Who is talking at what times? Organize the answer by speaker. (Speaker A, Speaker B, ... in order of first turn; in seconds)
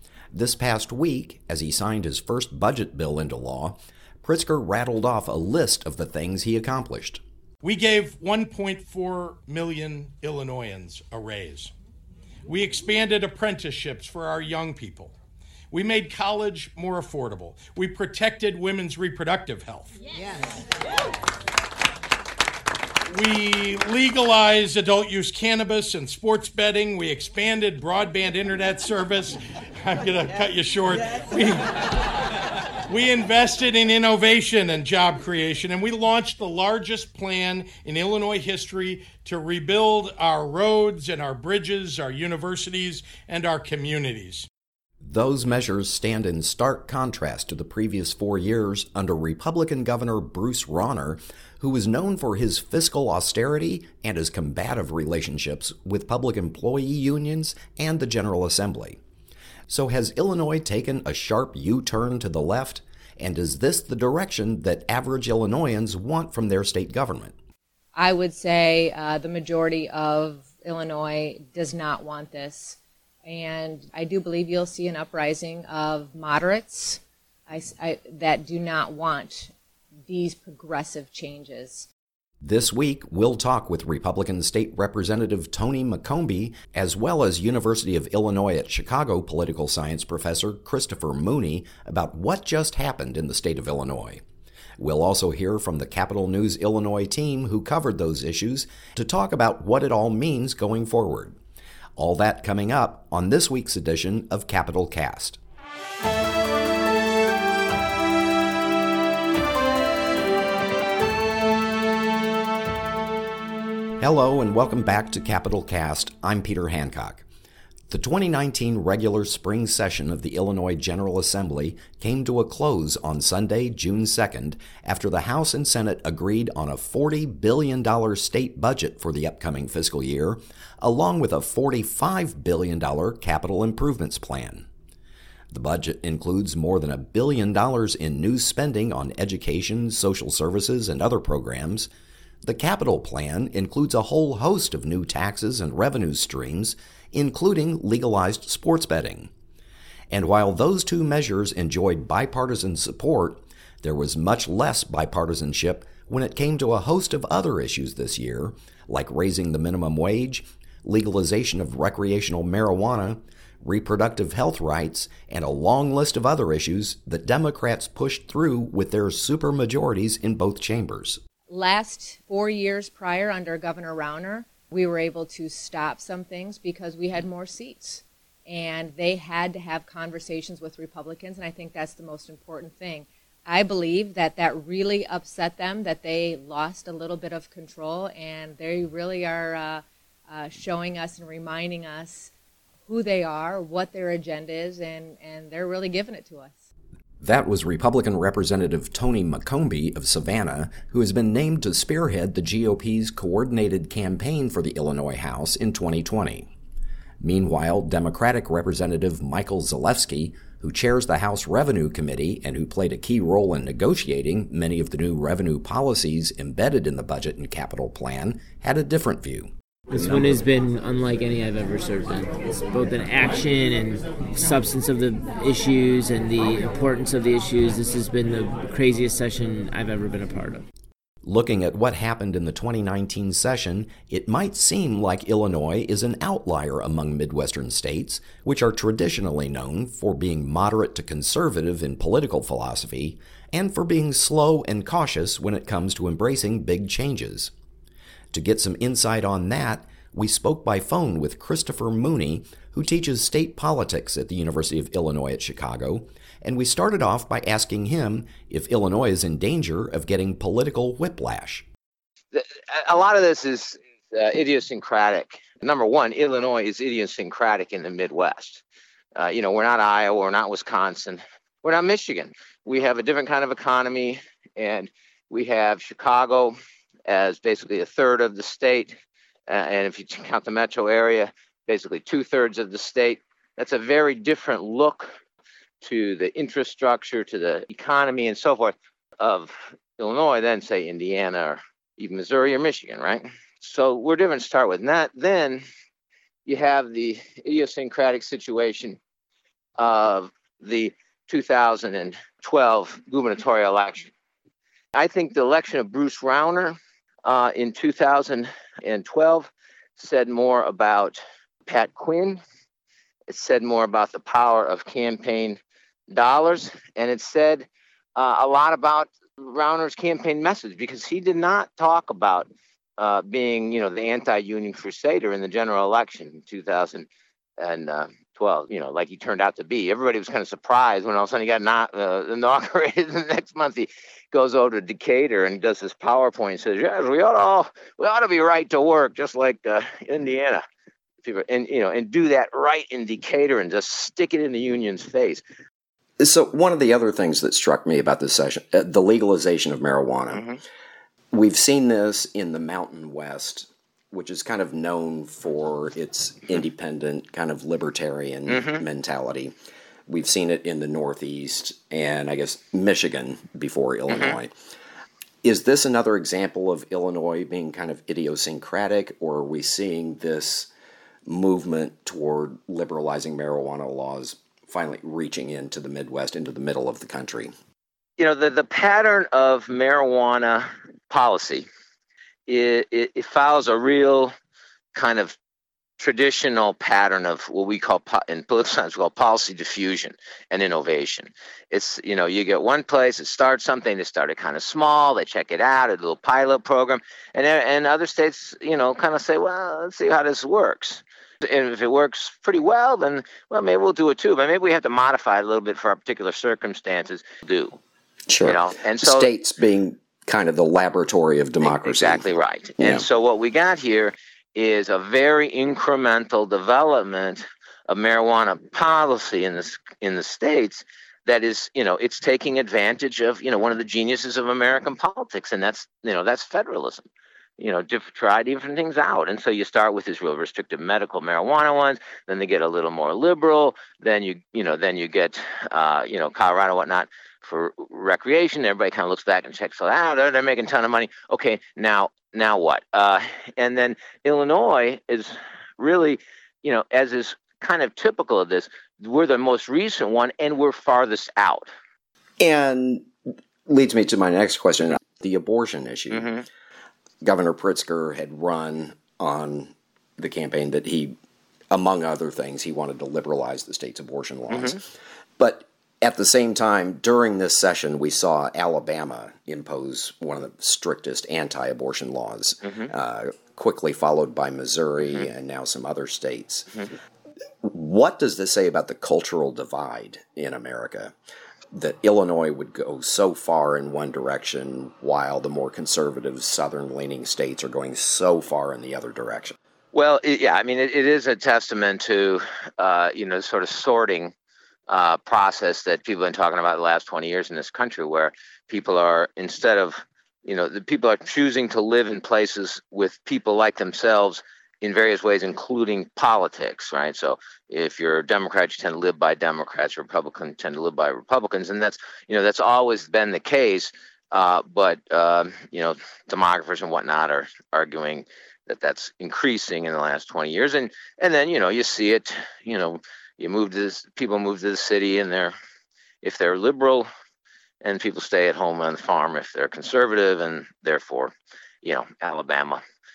Speaker A: 0.3-7.2, 45.0-59.0, 59.7-67.3, 82.4-94.2, 94.8-101.4, 102.0-105.4, 114.0-117.2, 117.9-134.7, 135.5-141.9, 142.4-149.3, 150.1-171.2, 197.2-206.5, 207.2-219.5, 231.2-247.5, 248.3-261.6, 346.2-350.4, 351.3-359.5, 360.1-364.5, 365.4-370.7, 371.2-377.5, 408.3-413.0, 452.4-453.1, 453.6-456.3, 457.2-461.2, 461.7-464.9, 465.4-476.9, 477.6-481.1, 481.7-489.6
Speaker B: 7.8-11.7, 12.8-15.1, 15.7-19.8, 23.2-31.6, 32.9-44.4
Speaker C: 68.0-79.5, 80.1-81.9, 171.5-192.3, 192.9-196.7
Speaker D: 219.9-230.6
Speaker E: 262.3-268.6, 269.1-276.5, 277.1-278.9, 279.5-285.1, 285.8-295.6, 296.4-299.0, 299.8-304.1, 304.9-312.4, 313.3-327.1, 327.6-340.6, 341.2-345.4, 358.5-358.8, 378.2-381.6, 382.5-384.3, 384.9-385.3, 386.0-407.8, 408.4-409.3, 411.6-427.1, 427.6-451.7, 456.1-456.4, 464.5-464.8, 489.9-494.3, 494.9-525.5, 526.2-527.1, 527.8-532.8